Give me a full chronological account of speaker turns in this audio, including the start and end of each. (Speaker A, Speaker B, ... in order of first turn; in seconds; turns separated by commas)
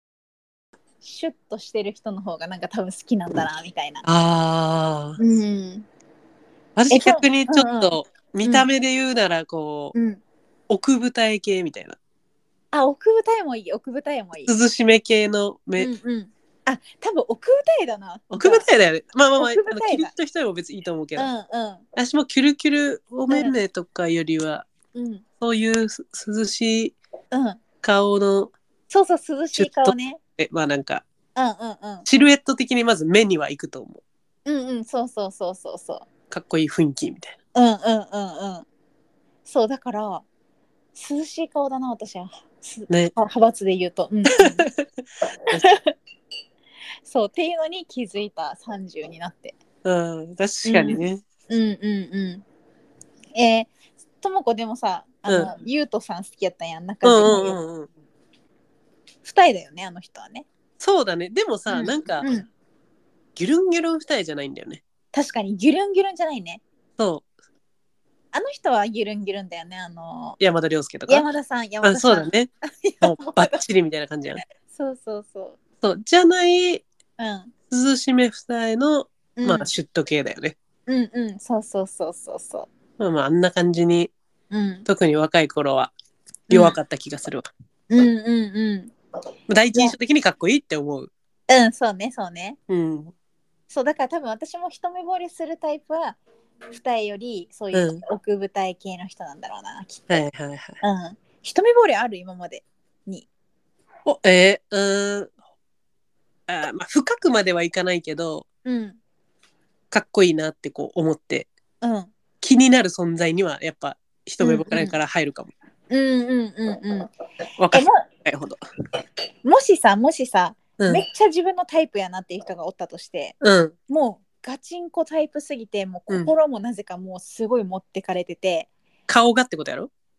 Speaker A: 1.0-4.1, Speaker B: 4.0-5.2, Speaker A: 5.2-5.8, Speaker B: 6.8-9.9, Speaker A: 6.9-8.7, Speaker A: 9.9-10.2, Speaker B: 10.7-12.0, Speaker A: 12.7-14.5, Speaker B: 14.4-15.9, Speaker A: 15.8-18.6, Speaker B: 18.3-21.3, Speaker A: 19.4-20.1, Speaker A: 21.2-21.8, Speaker B: 21.9-24.7, Speaker A: 23.3-23.5, Speaker A: 24.9-25.2, Speaker B: 25.4-26.9, Speaker A: 27.3-27.6, Speaker B: 27.8-28.5, Speaker A: 28.9-30.2, Speaker B: 29.5-31.0, Speaker A: 31.4-32.1, Speaker B: 32.1-34.0, Speaker A: 34.5-36.1, Speaker B: 36.3-37.4, Speaker A: 37.5-38.7, Speaker A: 39.5-40.2, Speaker A: 40.9-44.7, Speaker B: 44.4-44.8, Speaker A: 45.5-45.9, Speaker A: 47.0-49.6, Speaker B: 49.8-51.2, Speaker A: 50.6-52.4, Speaker A: 53.4-53.7, Speaker A: 54.2-57.6, Speaker B: 55.3-55.5, Speaker B: 57.0-57.9, Speaker A: 59.2-60.5, Speaker B: 60.8-62.3, Speaker A: 61.7-62.5, Speaker B: 63.4-64.8, Speaker A: 65.1-66.6, Speaker B: 67.0-67.3, Speaker A: 68.3-70.4, Speaker B: 70.4-71.3, Speaker A: 71.1-73.6, Speaker B: 71.8-72.5, Speaker B: 73.0-74.4, Speaker A: 74.7-75.6, Speaker B: 75.8-76.8, Speaker A: 77.2-77.5, Speaker B: 77.7-80.5, Speaker A: 79.3-79.7, Speaker A: 80.9-82.7, Speaker B: 83.0-84.1, Speaker A: 84.5-84.8, Speaker B: 84.8-85.9, Speaker A: 86.5-86.8, Speaker B: 86.5-87.5, Speaker A: 87.9-88.9, Speaker B: 89.5-91.1, Speaker A: 91.5-92.6, Speaker B: 92.7-93.1, Speaker A: 93.7-96.2, Speaker A: 96.7-100.2, Speaker B: 97.7-98.0, Speaker B: 100.1-100.8, Speaker A: 100.8-103.3, Speaker B: 104.0-105.3, Speaker B: 106.5-108.5, Speaker A: 108.7-109.0, Speaker B: 109.9-111.5, Speaker A: 111.8-112.1, Speaker B: 112.4-115.5, Speaker A: 114.4-115.0, Speaker A: 115.9-117.1, Speaker B: 117.6-118.6, Speaker A: 117.7-118.0, Speaker A: 119.4-123.3, Speaker B: 120.8-121.0, Speaker B: 123.4-123.7, Speaker A: 123.9-128.7, Speaker B: 129.1-129.9